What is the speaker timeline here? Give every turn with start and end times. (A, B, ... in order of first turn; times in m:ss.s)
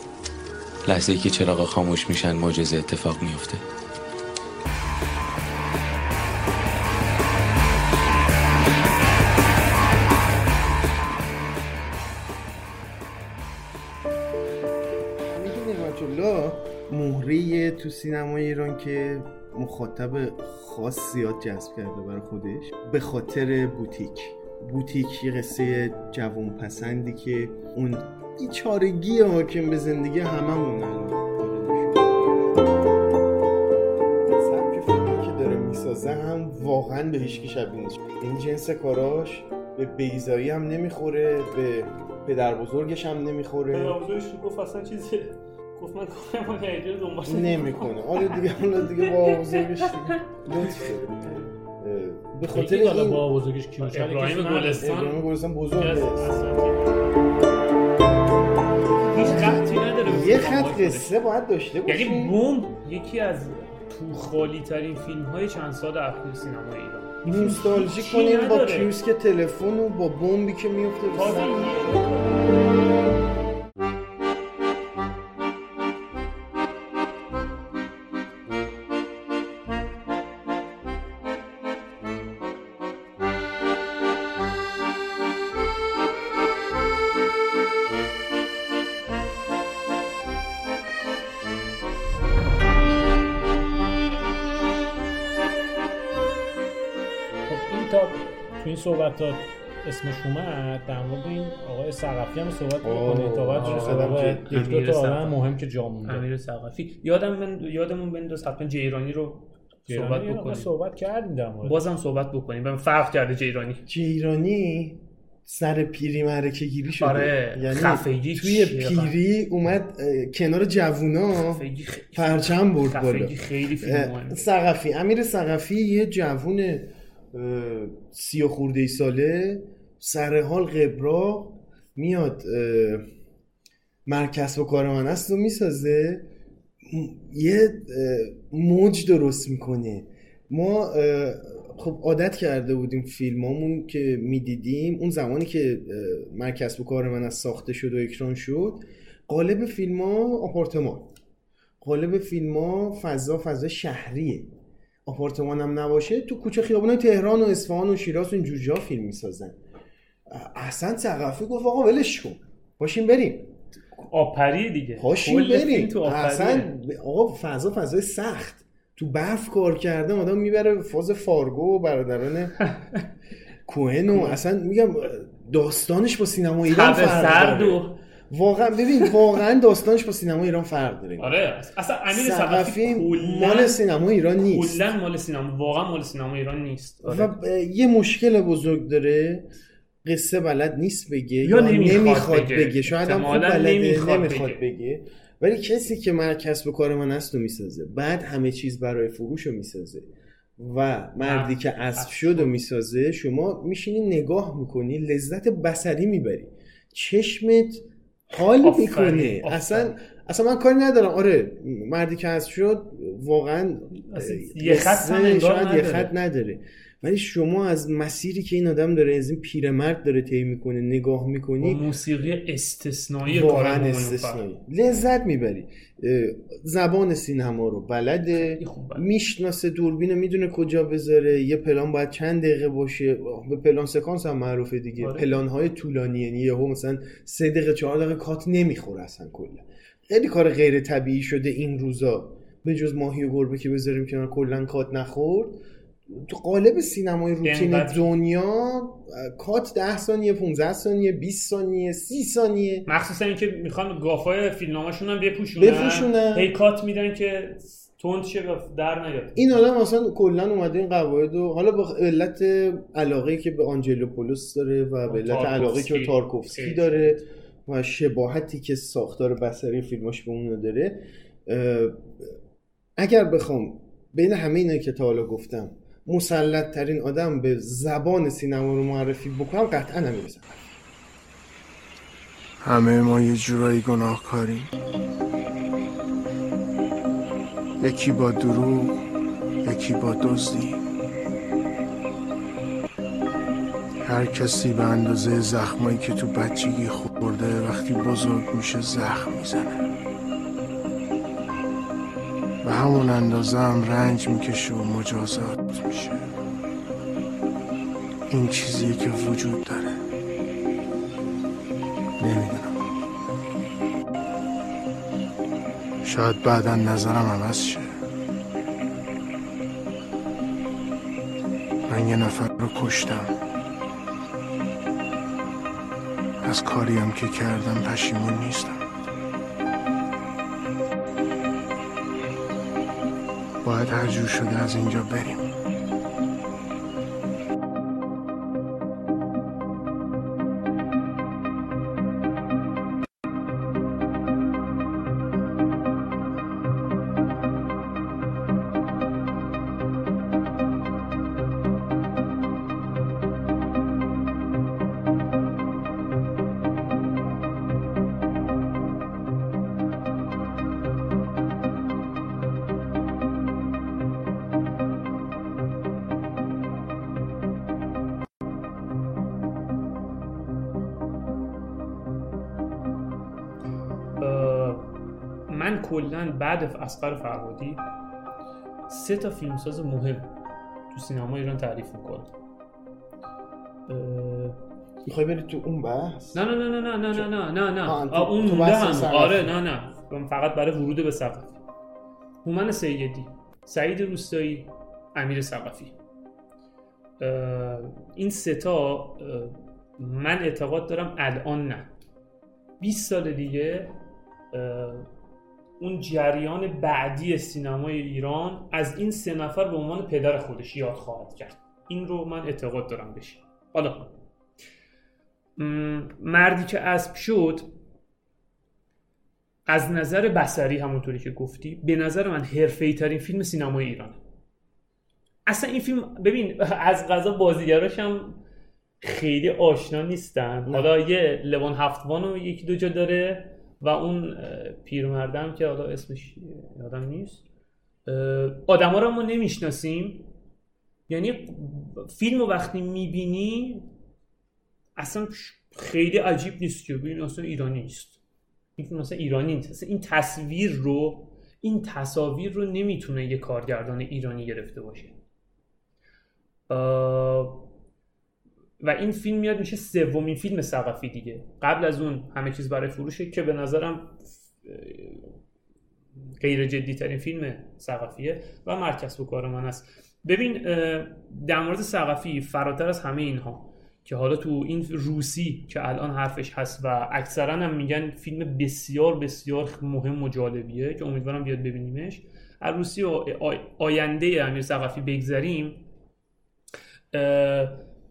0:00.9-0:03.6 A
0:15.3-0:32.5 B
0:34.3-0:44.0 B
0:43.7-0:47.9 C
0:47.3-0:53.2 B
0:49.0-0:50.1 C
0:50.6-0:51.5 C
0:52.5-0:54.9 D
0:53.8-0:57.0 C
0:54.8-0:56.4 B
0:59.1-1:01.1 C
0:59.2-1:02.4 B
1:01.9-1:08.9 C
1:07.2-1:12.0 B
1:11.1-1:12.4 C
1:37.5-1:46.3 D
1:42.8-1:44.5 B
1:43.5-1:45.4 C
1:46.0-1:50.7 C
1:49.9-1:51.8 D
1:51.6-1:53.8 C
1:53.9-2:13.1 B
1:57.0-1:59.2 C
2:01.4-2:04.4 C
2:14.1-2:16.3 B
2:16.8-2:31.1 B
2:31.8-2:34.5 B
2:35.1-2:39.6 B
2:40.3-2:43.5 B
2:44.0-2:46.7 C
2:45.0-2:52.6 B
2:53.7-3:01.4 B
2:54.1-2:54.4 C
2:56.7-2:58.0 C
3:01.2-3:03.8 C
3:02.1-3:04.9 B
3:04.4-3:07.3 C
3:07.0-3:09.5 B
3:10.0-3:20.1 B
3:11.4-3:14.6 C
3:20.6-3:41.8 B
3:21.2-3:22.6 C
3:28.6-3:30.0 C
3:34.0-3:36.1 C
3:41.6-3:44.4 C
3:43.2-4:05.6 B
3:48.3-3:49.0 C
3:55.0-3:55.3 C
4:06.1-4:12.9 B
4:07.4-4:08.1 C
4:12.9-4:19.6 C
4:15.6-4:16.5 B
4:19.4-4:32.3 B
4:25.1-4:27.2 C
4:33.0-4:40.6 B
4:42.6-4:44.7 E
4:47.8-4:49.0 E
4:49.6-4:50.8 E
4:54.0-4:59.8 E
5:02.6-5:06.3 E
5:08.3-5:10.0 E
5:12.2-5:12.8 E
5:16.0-5:17.9 E
5:21.9-5:23.3 E
5:26.4-5:28.8 E
5:33.6-5:35.5 E
6:14.2-6:14.9 C
6:15.5-6:17.8 C
6:18.9-6:20.3 C
6:20.9-6:22.3 C
6:23.9-6:24.6 C
6:25.0-6:26.5 B
6:26.3-6:31.6 C
6:27.8-6:29.5 B
6:32.4-6:36.0 C
6:37.2-6:41.9 C
6:42.8-6:43.9 C
6:44.5-6:45.1 C
6:45.8-6:54.1 C
6:55.6-6:57.7 C
6:59.7-7:04.2 C
7:05.5-7:08.4 C
7:09.0-7:17.4 C
7:18.1-7:20.3 C
7:21.1-7:23.9 C
7:25.0-7:28.2 C
7:28.8-7:35.2 C
7:36.7-7:37.6 C
7:38.8-7:45.3 C
7:46.4-8:05.9 C
8:07.1-8:07.8 C